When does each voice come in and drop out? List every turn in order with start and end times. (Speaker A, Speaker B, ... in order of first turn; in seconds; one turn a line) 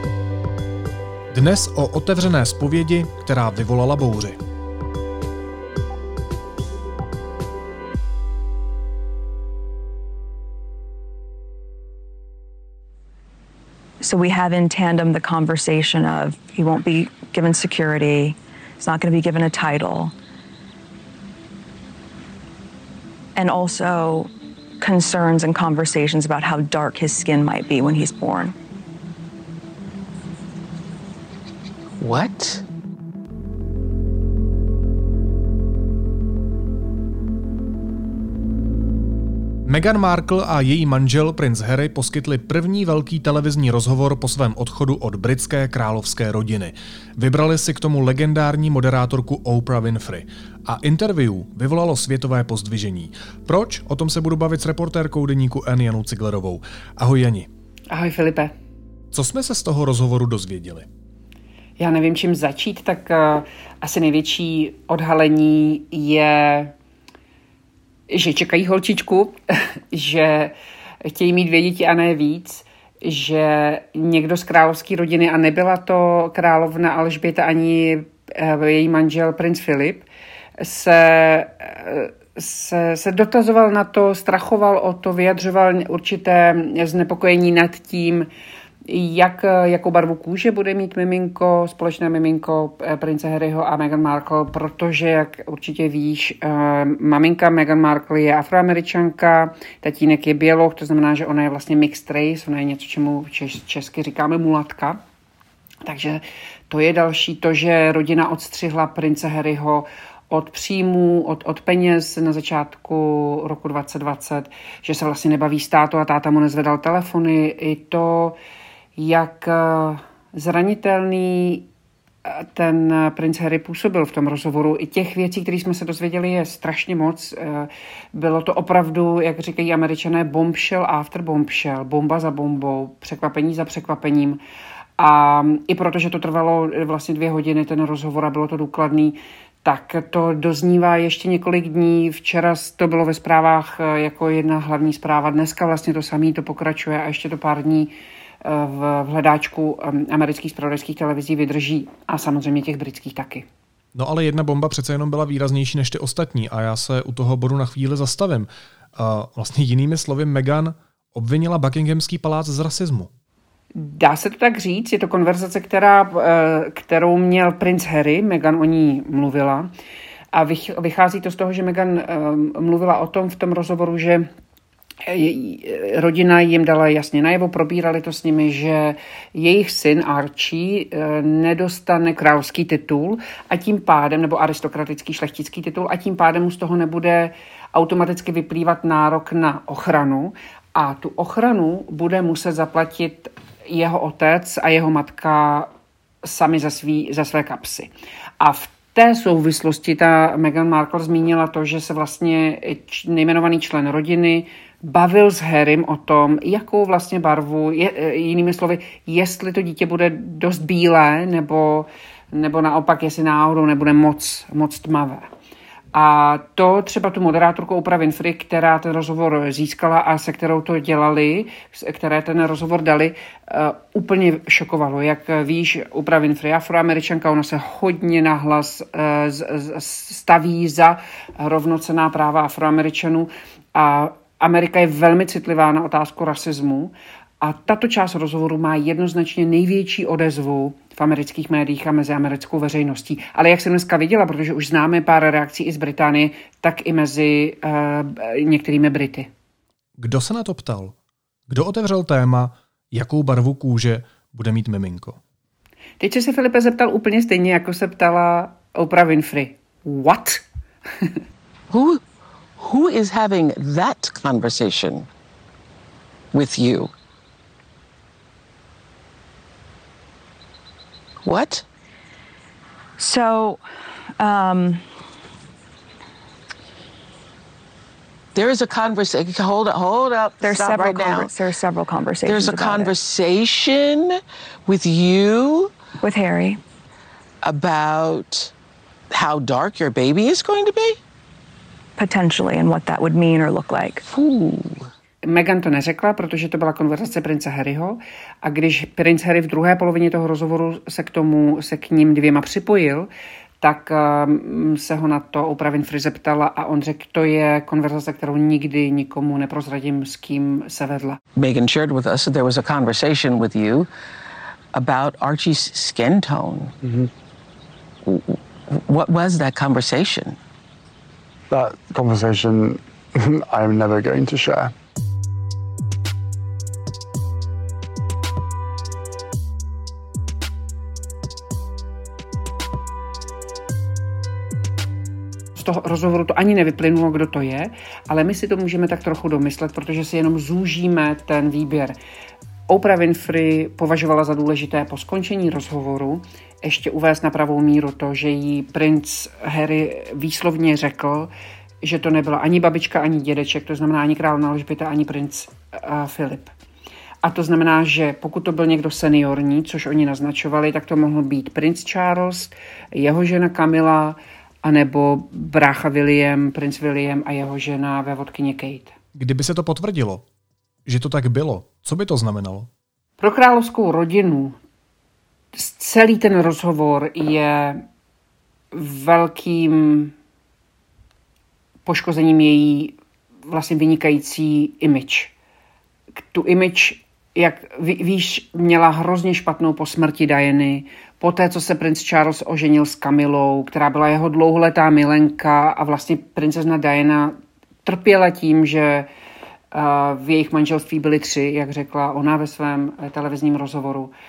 Speaker A: 1.3-4.4
Speaker B: 14.0-20.1
Speaker B: 23.3-28.6
Speaker C: 32.0-32.6
Speaker A: 39.6-57.5
Speaker D: 57.9-58.5
Speaker A: 59.1-60.9
Speaker D: 61.8-66.7
Speaker D: 68.1-80.1
Speaker D: 80.6-88.3
Speaker D: 88.8-105.0
Speaker D: 105.8-118.4
Speaker D: 119.0-121.7
Speaker D: 122.2-134.4
Speaker D: 135.0-153.4
Speaker A: 153.9-163.1
Speaker D: 163.7-169.7
Speaker D: 170.3-174.3
Speaker D: 175.0-195.7
Speaker D: 196.2-215.3
Speaker D: 215.9-249.3
Speaker A: 250.0-250.9
Speaker A: 251.5-255.2
Speaker D: 256.0-260.4
Speaker C: 261.7-262.0
Speaker C: 262.6-265.1
Speaker C: 266.3-266.9
Speaker C: 271.2-271.6
Speaker B: 273.0-273.6
Speaker B: 274.2-274.8
Speaker C: 278.3-281.3
Speaker B: 280.4-282.9
Speaker C: 282.2-285.7
Speaker B: 286.0-286.6
Speaker C: 287.4-288.5
Speaker C: 289.1-291.0
Speaker B: 292.0-294.0
Speaker C: 294.1-294.9
Speaker D: 295.2-303.1
Speaker D: 303.6-311.2
Speaker C: 311.4-313.9
Speaker C: 314.7-316.7
Speaker E: 316.8-317.1
Speaker C: 318.1-320.4
Speaker E: 321.5-324.7
Speaker D: 335.6-342.0
Speaker D: 342.7-351.3
Speaker D: 351.8-356.5
Speaker D: 357.2-368.9
Speaker A: 369.1-370.2
Speaker A: 370.9-372.7
Speaker D: 373.2-374.6
Speaker D: 375.5-377.8
Speaker D: 378.7-380.1
Speaker D: 381.8-382.9
Speaker D: 383.5-385.3
Speaker D: 386.2-399.1
Speaker D: 399.7-404.1